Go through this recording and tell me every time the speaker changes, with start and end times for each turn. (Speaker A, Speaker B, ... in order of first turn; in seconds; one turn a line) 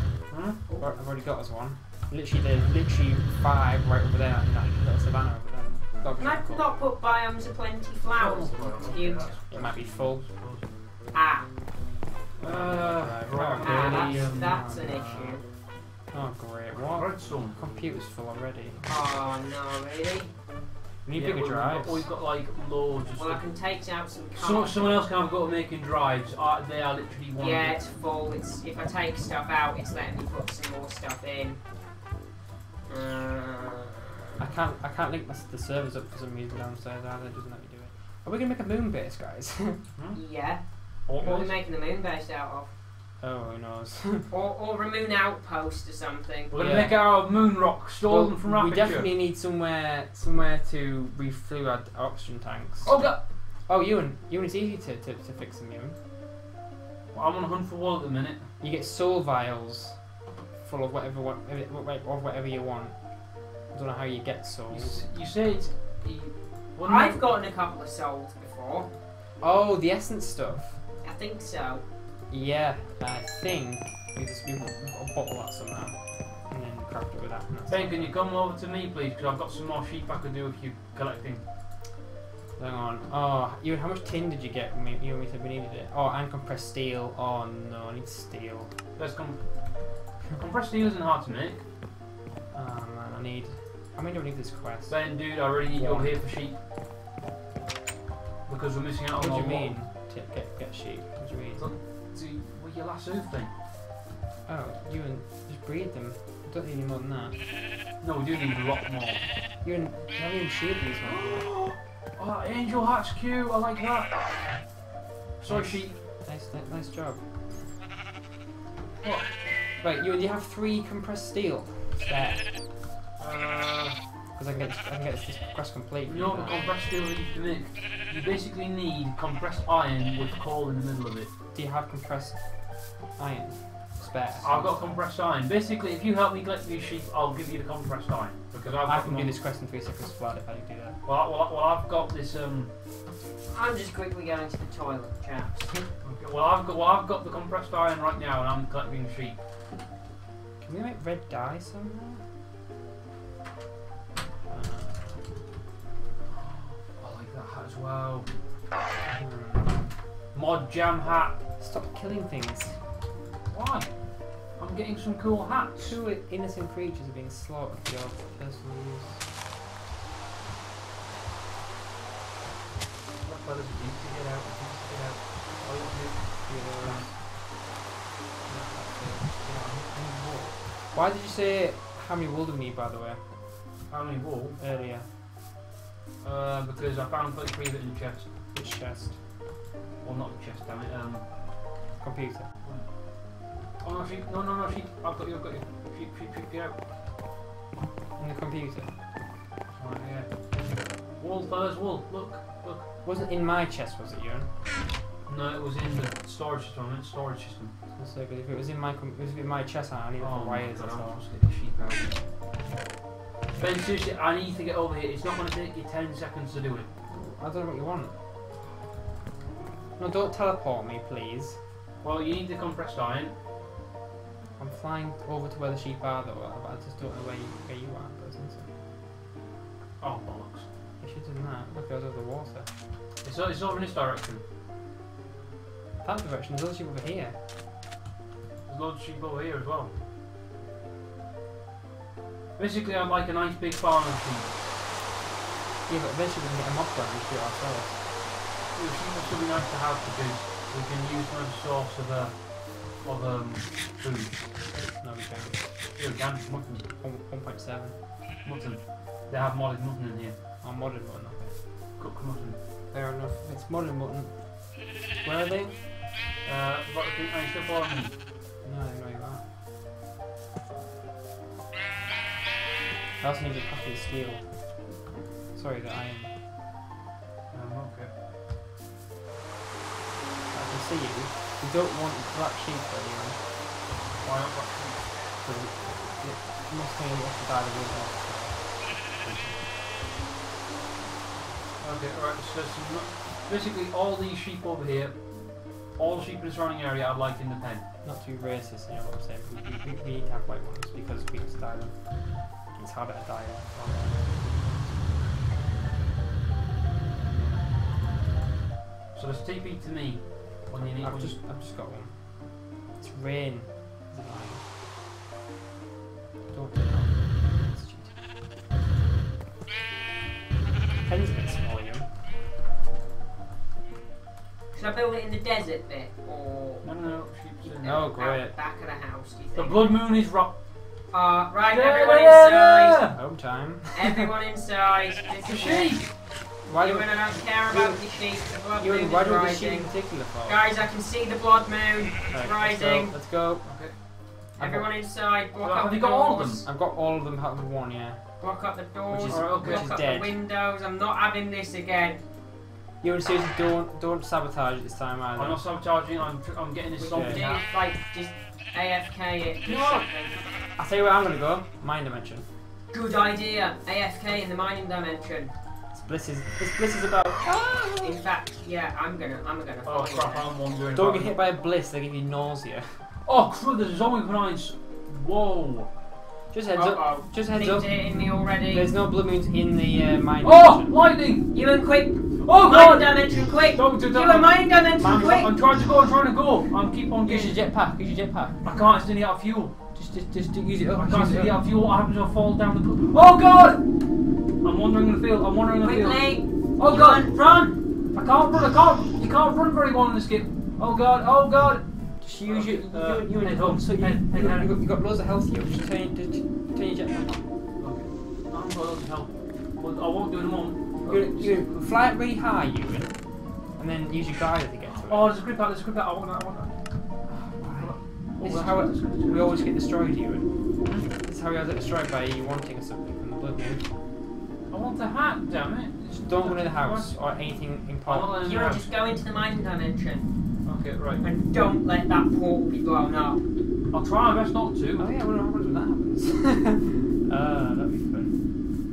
Speaker A: 0.3-0.6
Speaker B: 0.8-6.7
Speaker C: 6.2-9.4
Speaker A: 8.1-10.7
Speaker B: 9.5-10.3
Speaker C: 11.1-11.5
Speaker A: 12.4-14.7
Speaker B: 12.4-15.4
Speaker C: 13.6-15.4
Speaker B: 16.1-18.9
Speaker A: 16.7-17.6
Speaker C: 18.8-20.3
Speaker B: 21.0-22.1
Speaker A: 21.1-23.4
Speaker C: 23.2-25.1
Speaker A: 24.3-27.8
Speaker C: 27.4-31.6
Speaker C: 32.9-34.5
Speaker B: 34.4-39.8
Speaker C: 40.1-42.7
Speaker A: 41.0-41.6
Speaker B: 43.2-44.3
Speaker C: 44.3-46.6
Speaker A: 46.5-49.1
Speaker B: 46.6-47.1
Speaker B: 48.0-53.1
Speaker A: 52.8-53.2
Speaker B: 53.7-56.0
Speaker A: 57.1-58.5
Speaker B: 58.6-60.0
Speaker B: 60.6-65.0
Speaker A: 64.7-67.3
Speaker C: 66.8-68.9
Speaker B: 69.4-70.8
Speaker C: 71.0-71.8
Speaker B: 72.3-78.2
Speaker A: 77.7-81.4
Speaker B: 82.6-88.7
Speaker A: 89.0-89.5
Speaker A: 90.2-91.6
Speaker B: 92.5-96.2
Speaker A: 94.9-96.6
Speaker A: 98.5-99.8
Speaker B: 99.1-101.7
Speaker A: 101.6-103.5
Speaker B: 104.5-107.4
Speaker A: 108.0-109.2
Speaker B: 109.6-111.5
Speaker A: 111.0-114.1
Speaker A: 115.4-116.0
Speaker B: 115.5-117.2
Speaker A: 119.0-119.3
Speaker B: 119.8-122.5
Speaker A: 123.2-124.0
Speaker B: 124.3-126.8
Speaker A: 126.0-131.3
Speaker B: 131.5-135.0
Speaker A: 134.4-139.4
Speaker B: 138.8-141.0
Speaker A: 141.1-142.7
Speaker C: 143.5-145.9
Speaker A: 146.0-149.4
Speaker B: 150.6-152.2
Speaker B: 154.5-155.2
Speaker A: 156.3-158.3
Speaker B: 159.1-159.9
Speaker A: 160.3-161.4
Speaker B: 161.6-162.8
Speaker A: 163.5-163.9
Speaker A: 164.6-166.0
Speaker B: 165.8-169.2
Speaker A: 173.2-177.1
Speaker B: 176.4-177.2
Speaker B: 178.4-183.2
Speaker A: 179.4-179.9
Speaker A: 183.9-184.6
Speaker B: 184.6-185.1
Speaker A: 186.2-188.3
Speaker B: 188.5-189.2
Speaker A: 190.0-191.2
Speaker B: 192.0-192.5
Speaker A: 192.6-192.9
Speaker A: 193.8-196.8
Speaker B: 198.2-198.9
Speaker A: 199.8-200.4
Speaker A: 201.2-202.9
Speaker B: 203.0-204.5
Speaker A: 205.3-207.7
Speaker B: 207.9-211.2
Speaker A: 210.2-212.2
Speaker A: 213.5-216.9
Speaker B: 217.1-218.1
Speaker B: 220.0-221.6
Speaker A: 222.0-223.3
Speaker B: 224.6-228.7
Speaker A: 230.0-230.7
Speaker B: 231.0-232.7
Speaker A: 233.2-234.4
Speaker B: 236.0-237.4
Speaker A: 238.7-239.9
Speaker A: 242.6-244.5
Speaker B: 245.9-248.0
Speaker A: 248.7-254.4
Speaker B: 255.0-255.7
Speaker A: 255.9-256.9
Speaker B: 257.0-258.0
Speaker A: 258.4-260.4
Speaker B: 260.6-261.6
Speaker A: 262.0-262.6
Speaker B: 262.9-265.8
Speaker A: 266.4-268.1
Speaker B: 268.6-269.4
Speaker B: 273.2-276.3
Speaker A: 277.5-278.1
Speaker B: 280.5-283.4
Speaker A: 284.2-285.0
Speaker B: 285.4-288.8
Speaker A: 289.2-289.6
Speaker A: 291.8-297.8
Speaker B: 298.0-305.3
Speaker B: 307.1-307.7
Speaker A: 309.1-311.4
Speaker B: 310.9-314.6
Speaker B: 316.5-318.1
Speaker B: 321.0-322.1
Speaker C: 324.7-326.9
Speaker A: 326.8-328.0
Speaker C: 327.7-330.0
Speaker B: 327.8-328.6
Speaker A: 329.5-330.5
Speaker C: 331.1-333.1
Speaker A: 331.7-333.1
Speaker B: 333.1-334.3
Speaker C: 333.9-336.0
Speaker A: 335.4-336.1
Speaker B: 336.6-340.6
Speaker C: 336.7-343.2
Speaker B: 342.3-343.8
Speaker A: 343.6-344.0
Speaker B: 344.6-345.0
Speaker C: 344.6-346.6
Speaker A: 345.6-346.7
Speaker B: 346.6-348.2
Speaker C: 348.4-352.2
Speaker B: 349.1-350.4
Speaker A: 349.3-349.9
Speaker B: 353.0-355.6
Speaker A: 355.3-357.7
Speaker B: 357.0-357.4
Speaker C: 357.2-360.4
Speaker A: 359.6-360.1
Speaker B: 360.8-362.4
Speaker C: 362.9-365.5
Speaker B: 365.9-368.2
Speaker C: 368.0-370.5
Speaker A: 369.8-371.4
Speaker B: 370.9-373.0
Speaker A: 373.3-375.9
Speaker B: 376.5-380.9
Speaker C: 376.7-378.9
Speaker A: 380.4-381.5
Speaker C: 381.5-385.5
Speaker A: 382.4-387.6
Speaker B: 384.9-385.6
Speaker B: 387.2-388.6
Speaker A: 388.6-389.8
Speaker B: 389.9-391.7
Speaker A: 390.9-393.8
Speaker A: 394.6-397.3
Speaker C: 395.7-397.8
Speaker A: 398.1-401.8
Speaker B: 402.2-407.4
Speaker A: 402.4-404.7
Speaker A: 407.8-411.7
Speaker B: 411.0-413.2
Speaker B: 413.8-415.4
Speaker A: 414.9-416.7
Speaker B: 417.3-420.5
Speaker A: 417.7-419.7
Speaker A: 420.8-421.1
Speaker B: 421.2-423.9
Speaker A: 424.7-427.2
Speaker B: 426.1-428.4
Speaker A: 428.1-428.9
Speaker C: 428.4-430.3
Speaker A: 430.6-431.3
Speaker C: 431.2-433.4
Speaker A: 433.9-435.1
Speaker B: 435.0-438.3